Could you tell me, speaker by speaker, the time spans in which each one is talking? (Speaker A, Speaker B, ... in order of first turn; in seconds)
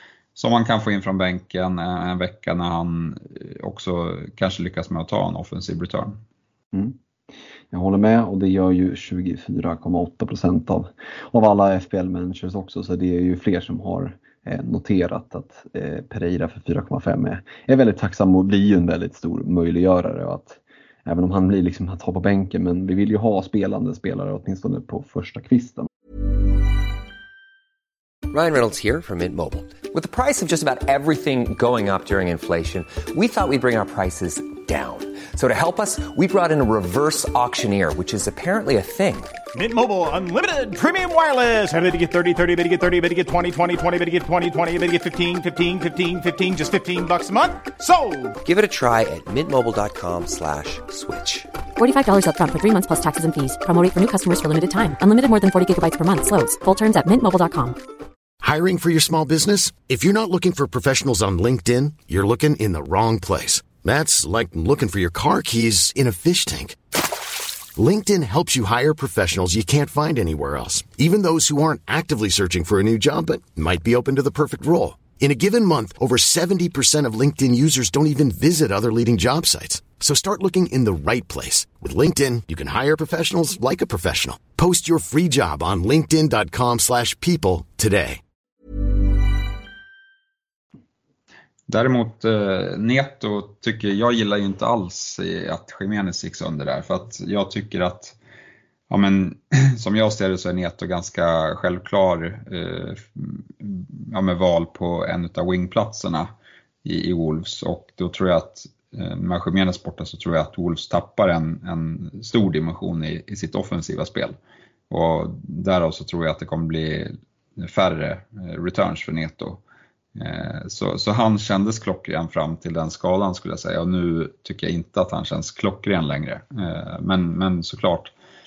Speaker A: 0.3-6.2, 91.7-98.2, 98.9-106.3, 106.8-114.3, 114.9-119.6, 120.2-128.1
Speaker B: 7.7-25.9
Speaker C: 28.3-39.4, 48.4-51.5
Speaker D: 39.5-48.4
Speaker E: 51.8-57.8
Speaker F: 58.4-66.8, 67.7-88.2